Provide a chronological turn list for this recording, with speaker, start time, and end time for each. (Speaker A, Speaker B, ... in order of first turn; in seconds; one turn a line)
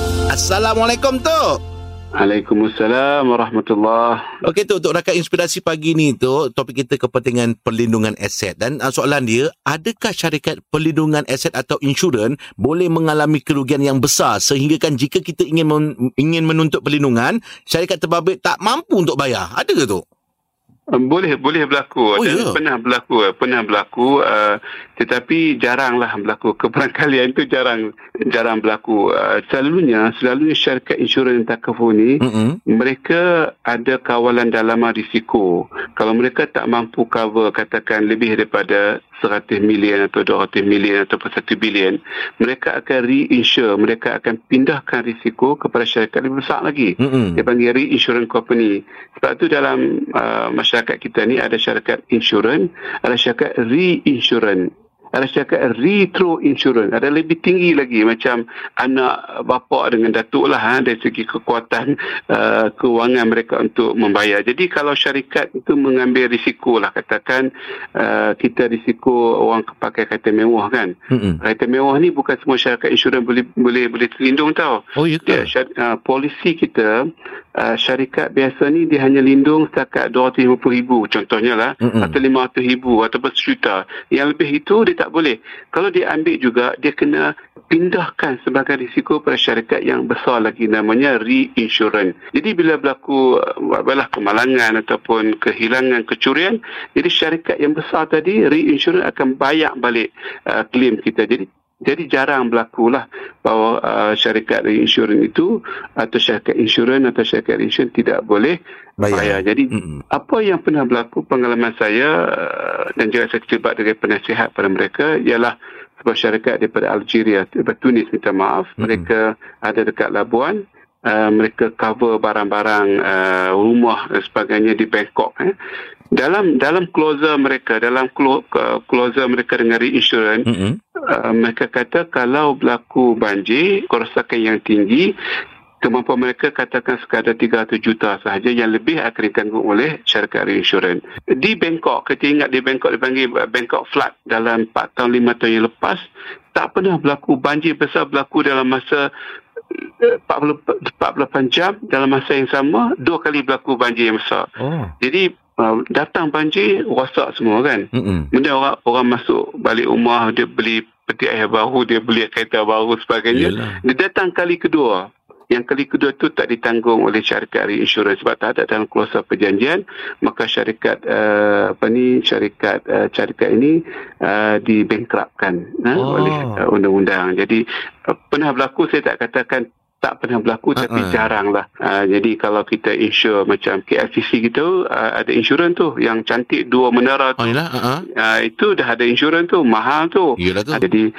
Speaker A: 0.3-1.6
Speaker B: 2.2-4.2
Speaker A: 4.4-20.0
Speaker B: 20.9-32.2
Speaker A: 22.2-22.6
Speaker A: 32.2-32.6
Speaker B: 32.7-77.0
Speaker A: 47.0-47.4
Speaker A: 71.1-71.4
Speaker A: 75.0-75.5
Speaker B: 77.6-108.6
Speaker A: 81.8-82.1
Speaker A: 109.0-110.0
Speaker B: 109.1-125.5
Speaker A: 118.8-119.0
Speaker B: 126.1-130.5
Speaker A: 130.4-130.8
Speaker B: 131.1-135.1
Speaker B: 135.8-149.1
Speaker B: 149.7-154.4
Speaker A: 154.6-154.9
Speaker B: 155.0-187.6
Speaker A: 157.9-158.3
Speaker A: 163.3-163.8
Speaker A: 176.0-176.6
Speaker A: 180.8-181.3
Speaker A: 187.4-188.0
Speaker B: 188.1-191.1
Speaker A: 190.4-190.8